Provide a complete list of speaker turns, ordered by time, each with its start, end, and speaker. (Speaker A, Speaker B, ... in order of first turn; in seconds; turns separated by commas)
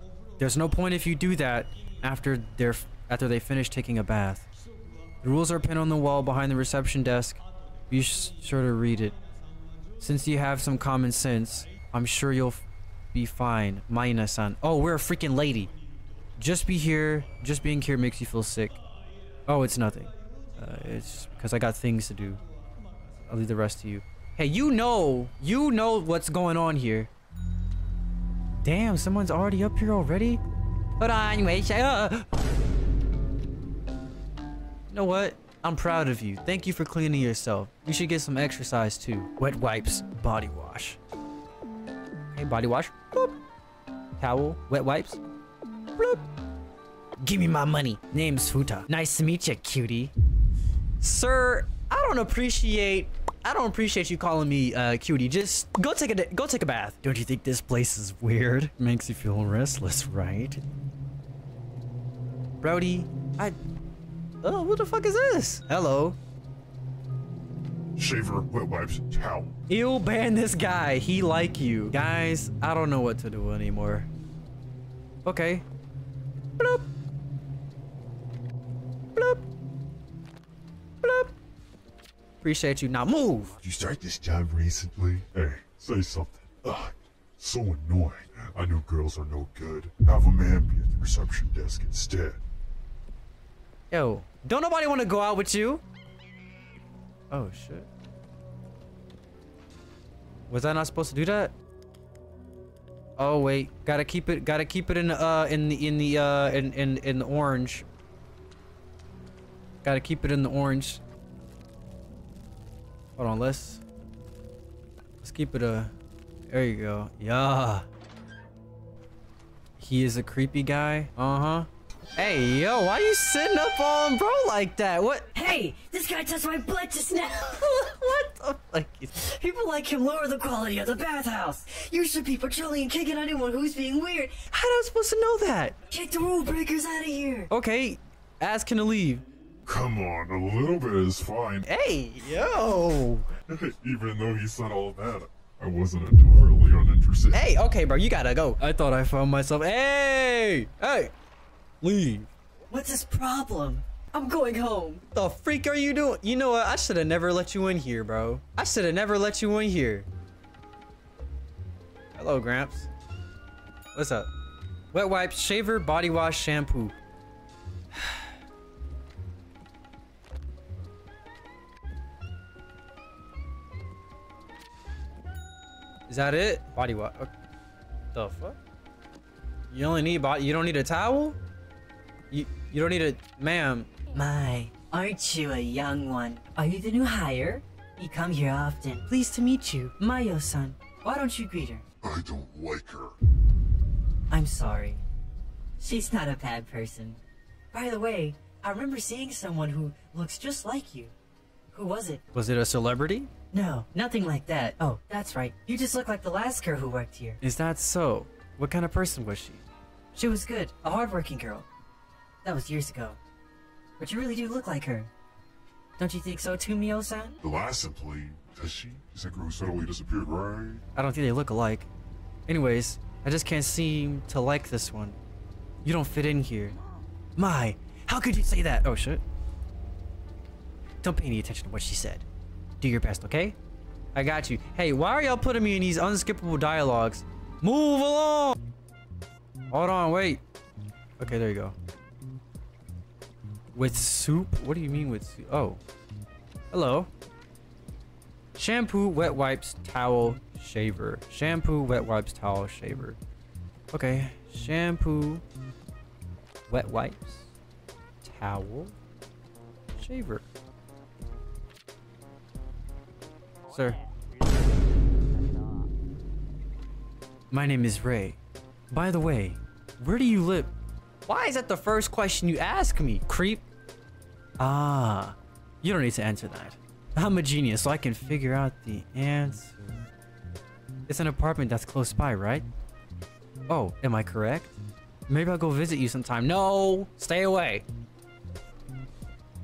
Speaker A: 0.4-4.5, Speaker A: 5.2-9.2, Speaker A: 10.0-15.7, Speaker A: 16.4-18.8, Speaker A: 19.5-22.4, Speaker A: 23.3-27.1, Speaker A: 28.6-30.4, Speaker A: 31.0-32.3, Speaker A: 34.9-41.0, Speaker A: 42.3-43.4, Speaker A: 44.2-45.2, Speaker A: 46.0-46.3, Speaker A: 47.2-50.1, Speaker A: 51.0-60.6, Speaker A: 62.6-63.6, Speaker A: 64.4-66.2, Speaker B: 68.0-69.5, Speaker A: 69.7-74.1, Speaker A: 75.2-75.6, Speaker A: 76.6-76.9, Speaker A: 79.1-79.4, Speaker A: 81.0-81.3, Speaker A: 82.4-83.6, Speaker B: 83.6-92.4, Speaker A: 93.9-95.8, Speaker A: 97.3-97.9, Speaker A: 100.5-101.5, Speaker A: 103.2-107.9, Speaker A: 109.8-111.0, Speaker A: 113.2-113.8, Speaker A: 115.2-115.9, Speaker A: 116.5-117.9, Speaker A: 119.8-125.4, Speaker C: 125.4-128.0, Speaker A: 127.7-129.3, Speaker C: 129.2-134.4, Speaker A: 134.3-135.9, Speaker C: 135.9-137.4, Speaker A: 137.4-139.2, Speaker B: 139.7-141.6, Speaker A: 141.7-143.3, Speaker B: 143.5-147.4, Speaker A: 147.3-151.1, Speaker A: 151.8-152.3, Speaker C: 152.7-154.9, Speaker A: 154.9-160.1, Speaker A: 162.1-162.9, Speaker A: 163.9-164.3, Speaker A: 164.9-166.9, Speaker A: 167.9-168.3, Speaker A: 176.1-177.3, Speaker A: 178.1-178.6, Speaker A: 179.7-181.4, Speaker A: 182.3-184.1, Speaker C: 184.1-189.0, Speaker A: 189.0-191.8, Speaker B: 192.0-193.1, Speaker C: 194.3-194.9, Speaker A: 194.4-195.0, Speaker C: 195.8-197.2, Speaker C: 197.7-201.1, Speaker C: 201.7-202.2, Speaker A: 202.3-203.5, Speaker C: 203.5-207.4, Speaker A: 207.3-209.6, Speaker C: 210.1-210.5, Speaker A: 210.3-211.6, Speaker C: 212.4-213.0, Speaker A: 212.5-213.2, Speaker A: 214.0-215.1, Speaker A: 216.0-217.4, Speaker B: 217.4-220.8, Speaker A: 220.9-221.9, Speaker A: 222.5-225.2, Speaker A: 225.8-226.8, Speaker A: 227.4-229.2, Speaker A: 231.0-232.2, Speaker A: 232.8-233.6, Speaker A: 234.1-238.6, Speaker A: 239.7-240.4, Speaker A: 241.2-241.8, Speaker A: 243.7-245.8, Speaker A: 246.7-247.1, Speaker A: 248.6-253.2, Speaker A: 253.9-255.4, Speaker A: 256.7-257.5, Speaker A: 258.2-259.0, Speaker A: 259.9-260.4, Speaker A: 263.7-264.0, Speaker A: 267.5-268.4, Speaker A: 268.9-270.7, Speaker A: 271.3-273.6, Speaker A: 274.6-280.1, Speaker A: 281.1-282.7, Speaker A: 283.7-284.8, Speaker A: 285.3-287.9